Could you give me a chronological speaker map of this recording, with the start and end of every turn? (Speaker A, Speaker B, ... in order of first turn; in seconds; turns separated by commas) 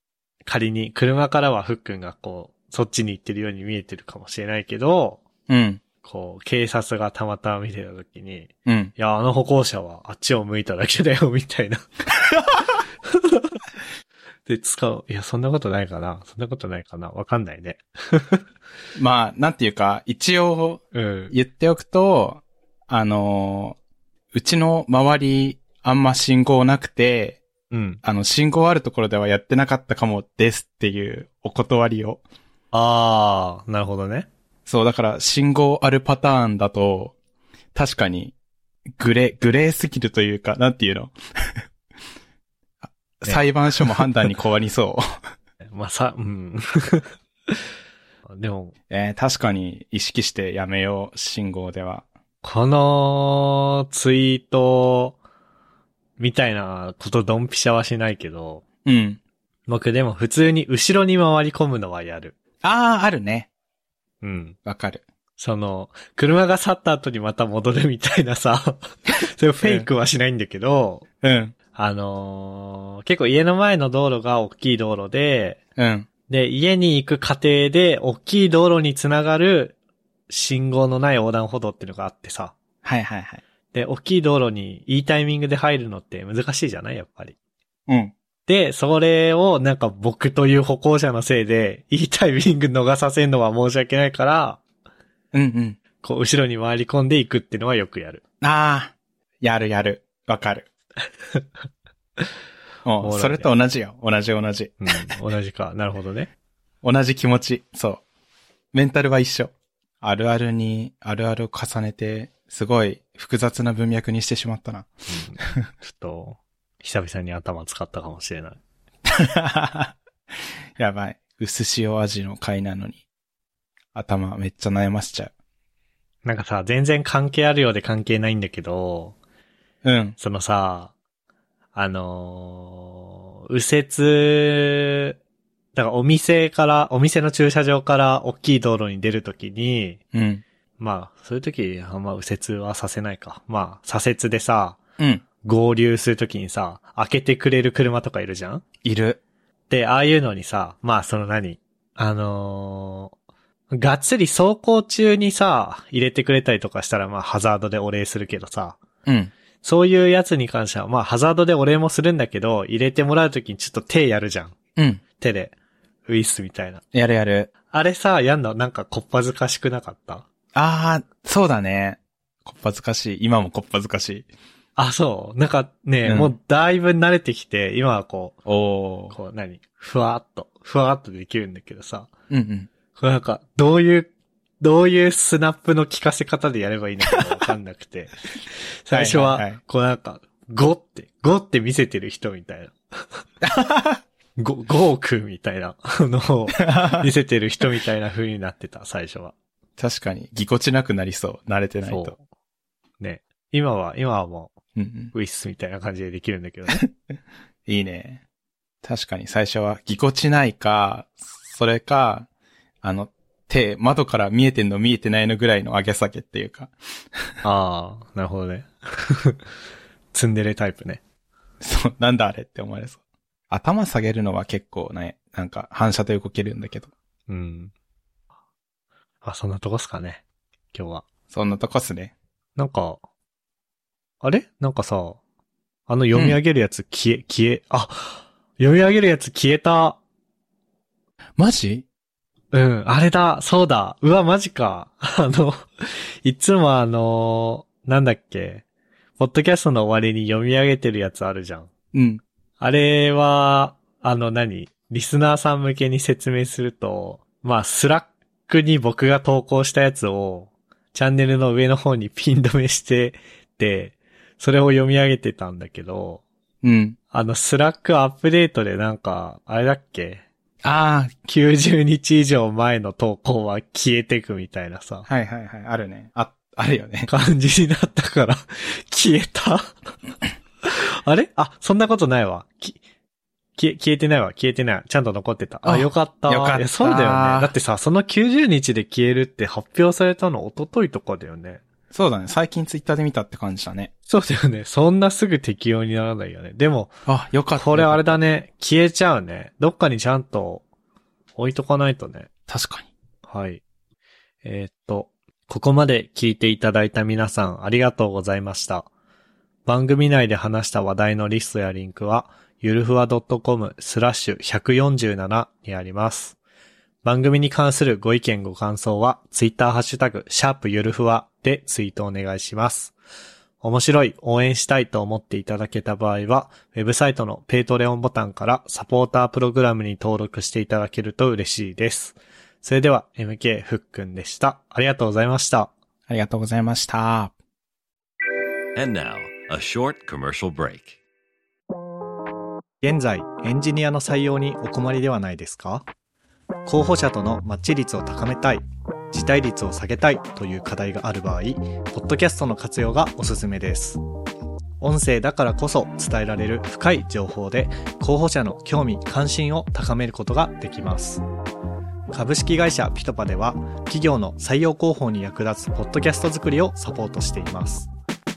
Speaker A: 0.5-5.2, Speaker B: 5.5-5.8, Speaker A: 6.0-11.8, Speaker B: 8.7-8.9, Speaker B: 12.3-12.7, Speaker A: 13.1-13.6, Speaker A: 14.5-18.4, Speaker B: 18.9-23.8, Speaker A: 20.9-21.3, Speaker B: 24.3-27.4, Speaker A: 27.7-28.0, Speaker B: 28.0-32.2, Speaker A: 32.7-34.3, Speaker B: 34.7-37.1, Speaker B: 37.8-38.4, Speaker B: 39.0-41.6, Speaker B: 42.8-45.1, Speaker A: 45.6-47.1, Speaker A: 48.3-48.8, Speaker B: 48.9-52.1, Speaker A: 52.4-55.2, Speaker A: 56.2-58.6, Speaker B: 58.9-59.2, Speaker A: 59.7-62.4, Speaker B: 62.6-63.5, Speaker A: 64.2-64.6, Speaker B: 64.7-65.0, Speaker A: 65.4-71.0, Speaker B: 69.6-69.9, Speaker B: 71.2-71.5, Speaker A: 71.8-75.6, Speaker B: 75.8-76.1, Speaker A: 76.3-79.8, Speaker A: 80.3-82.5, Speaker B: 82.8-83.4, Speaker A: 83.7-87.3, Speaker B: 87.9-88.1, Speaker A: 88.5-94.6, Speaker B: 95.3-95.8, Speaker A: 96.0-98.2, Speaker B: 98.4-100.7, Speaker B: 102.8-104.8, Speaker A: 103.0-103.5, Speaker A: 104.8-106.3, Speaker B: 106.8-108.0, Speaker B: 108.7-114.9, Speaker A: 115.1-118.6, Speaker B: 119.2-119.9, Speaker B: 120.8-123.0, Speaker B: 123.9-125.3, Speaker A: 126.2-129.2, Speaker B: 129.8-130.2, Speaker A: 130.2-130.9, Speaker A: 131.8-135.1, Speaker A: 135.8-140.0, Speaker B: 140.1-140.4, Speaker A: 140.8-144.8, Speaker A: 145.4-148.6, Speaker B: 148.8-149.2, Speaker A: 149.7-153.1, Speaker A: 153.7-158.8, Speaker B: 159.1-159.3, Speaker A: 159.6-164.6, Speaker B: 164.8-165.0, Speaker A: 165.2-165.6, Speaker A: 166.1-166.8, Speaker B: 166.9-167.5, Speaker A: 167.7-170.3, Speaker B: 170.5-174.3, Speaker A: 174.8-178.4, Speaker B: 176.1-176.3, Speaker B: 178.5-179.2, Speaker A: 179.1-182.1, Speaker B: 182.3-182.7, Speaker A: 182.9-188.2, Speaker A: 188.8-192.8, Speaker B: 188.9-189.6, Speaker B: 193.4-194.0, Speaker A: 194.4-199.3, Speaker B: 196.6-197.1, Speaker B: 199.8-202.2, Speaker A: 201.8-202.2, Speaker A: 203.0-204.5, Speaker B: 204.8-205.1, Speaker A: 205.1-206.8, Speaker B: 207.7-208.2, Speaker B: 208.8-212.3, Speaker B: 212.8-217.3, Speaker A: 217.4-219.4, Speaker A: 220.1-221.0, Speaker B: 221.6-223.0, Speaker B: 223.5-226.9, Speaker A: 227.3-227.7, Speaker A: 229.2-231.1, Speaker B: 231.3-232.1, Speaker A: 232.6-233.0, Speaker A: 234.2-235.2, Speaker A: 235.9-240.0, Speaker B: 236.1-236.4, Speaker B: 241.4-241.9, Speaker A: 242.5-248.6, Speaker A: 249.2-251.7, Speaker B: 251.9-252.2, Speaker A: 252.6-266.2, Speaker B: 266.6-267.0, Speaker A: 267.1-270.2, Speaker B: 270.6-271.1, Speaker A: 271.2-275.1, Speaker B: 275.1-277.1, Speaker A: 277.1-279.7, Speaker A: 280.6-282.8, Speaker A: 283.6-291.6, Speaker B: 285.6-287.5, Speaker B: 291.9-293.9, Speaker A: 294.1-297.0, Speaker B: 297.1-298.2, Speaker A: 297.6-300.6, Speaker A: 301.4-302.3, Speaker B: 302.5-302.9, Speaker A: 303.3-303.6, Speaker A: 304.4-308.9, Speaker A: 309.7-316.4, Speaker A: 317.0-322.9, Speaker A: 323.6-335.7, Speaker B: 336.1-337.3, Speaker C: 338.8-341.0, Speaker A: 342.8-345.9, Speaker A: 346.6-354.0, Speaker A: 354.8-361.2, Speaker A: 362.1-367.9